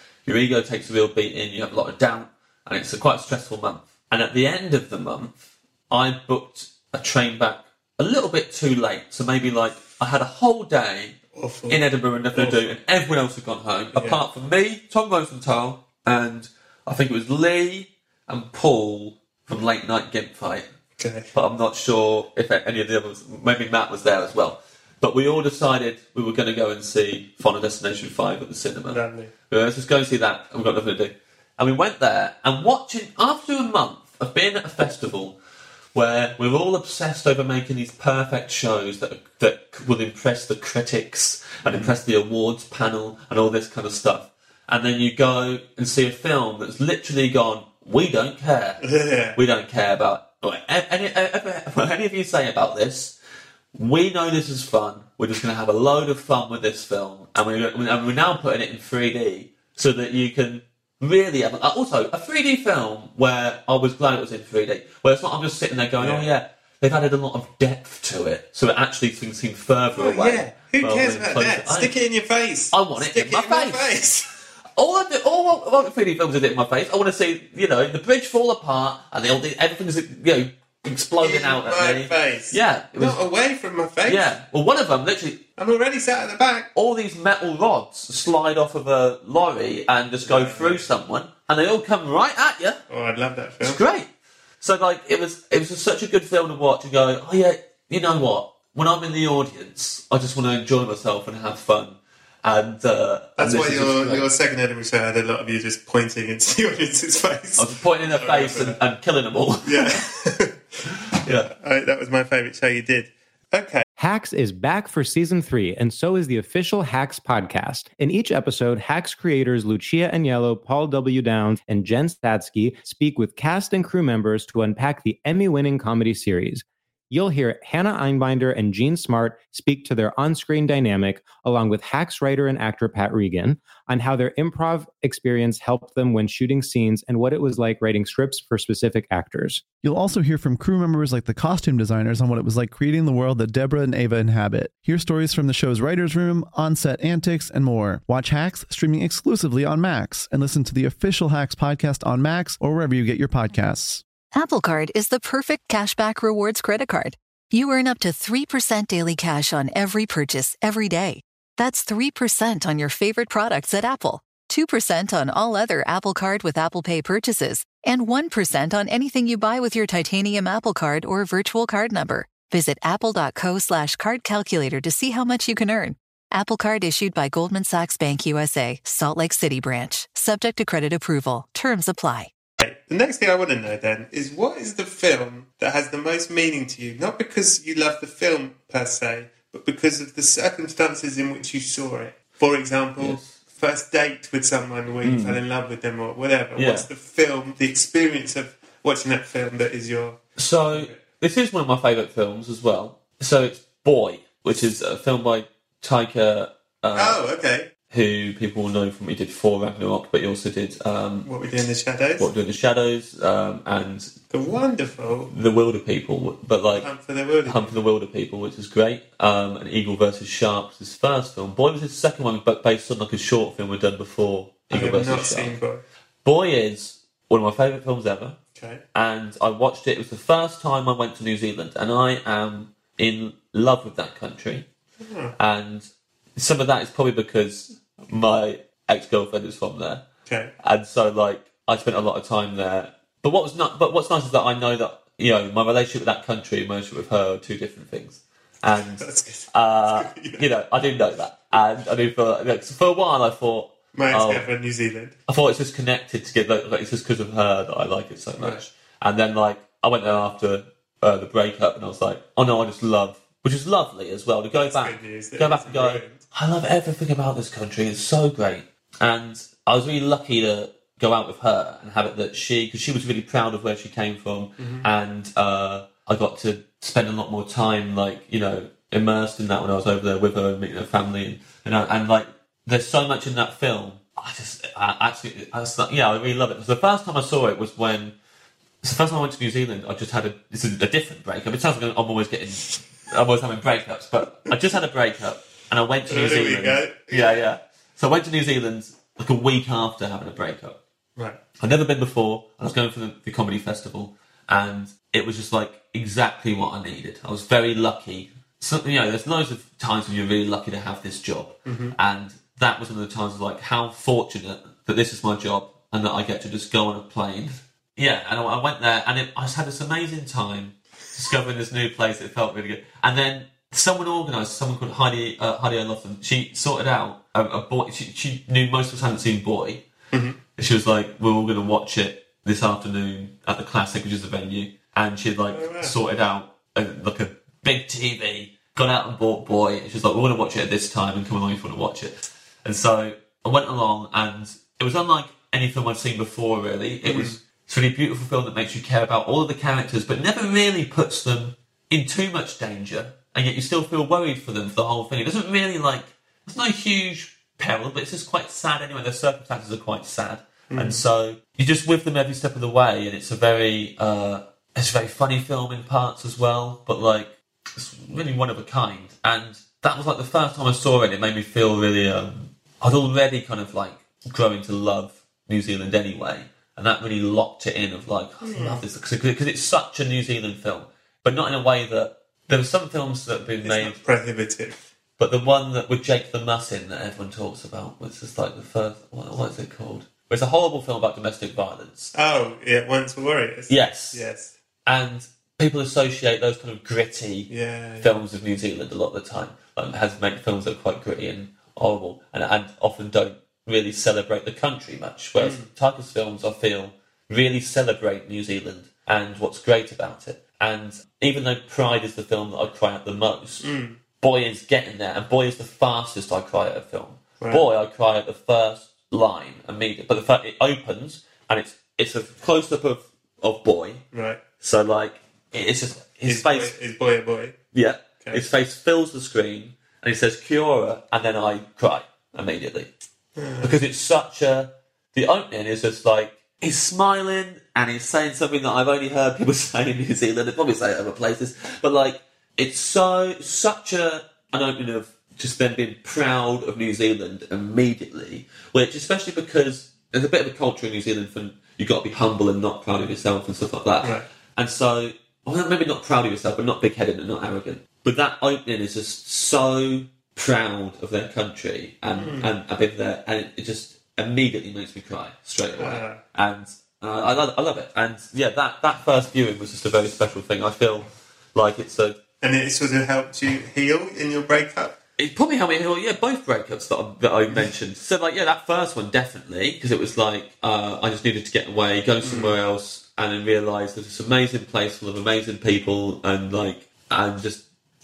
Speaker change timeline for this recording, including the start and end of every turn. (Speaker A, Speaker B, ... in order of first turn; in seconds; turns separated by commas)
Speaker A: 0.2-11.2, Speaker B: 11.4-11.8, Speaker A: 11.7-20.7, Speaker A: 21.3-35.4, Speaker B: 29.0-29.3, Speaker A: 35.9-48.8, Speaker B: 48.8-49.4, Speaker A: 49.4-53.1, Speaker A: 53.7-71.9, Speaker B: 66.0-66.3, Speaker B: 70.0-74.2, Speaker A: 72.7-73.9, Speaker A: 74.8-83.2, Speaker B: 81.2-84.3, Speaker A: 84.0-85.4, Speaker B: 85.6-86.7, Speaker A: 86.7-92.8, Speaker B: 90.3-90.8, Speaker B: 92.9-93.8, Speaker A: 93.6-94.1, Speaker A: 94.6-104.3, Speaker B: 103.4-108.8, Speaker A: 107.5-110.0, Speaker B: 109.6-110.6, Speaker A: 111.2-111.5, Speaker B: 111.3-113.8, Speaker C: 114.0-139.6, Speaker D: 139.8-154.0, Speaker E: 154.3-182.3, Speaker B: 182.6-200.2, Speaker A: 193.0-193.3, Speaker A: 195.0-195.4, Speaker A: 196.6-196.9, Speaker A: 200.4-207.2, Speaker B: 207.0-207.7, Speaker A: 207.9-211.3, Speaker B: 211.2-212.3, Speaker A: 212.2-214.1, Speaker B: 214.3-215.3, Speaker A: 215.3-216.9, Speaker B: 216.7-217.7, Speaker A: 217.4-225.5, Speaker B: 224.7-225.8, Speaker A: 226.2-228.4, Speaker A: 228.9-234.7, Speaker A: 235.4-240.0, Speaker A: 240.6-254.4, Speaker B: 249.0-250.4, Speaker B: 253.9-255.1, Speaker A: 255.3-288.1, Speaker B: 264.6-266.2, Speaker B: 274.6-274.8, Speaker A: 288.8-300.8, Speaker B: 296.1-297.4, Speaker A: 301.6-329.8, Speaker A: 330.6-384.0, Speaker B: 335.5-335.9, Speaker B: 347.1-347.4, Speaker B: 360.7-361.0, Speaker B: 378.4-378.8, Speaker B: 383.6-384.8, Speaker A: 385.2-392.1, Speaker B: 392.1-394.5, Speaker A: 393.7-394.2, Speaker A: 394.9-413.7, Speaker B: 397.5-398.1, Speaker B: 405.4-405.6, Speaker B: 413.6-413.9, Speaker A: 414.2-424.0, Speaker B: 424.1-424.4, Speaker A: 424.6-426.8, Speaker B: 426.3-427.6, Speaker A: 427.7-432.9, Speaker B: 433.4-433.8, Speaker A: 433.6-472.2, Speaker B: 465.8-466.1, Speaker B: 472.4-474.9, Speaker A: 475.2-487.6, Speaker B: 482.3-482.5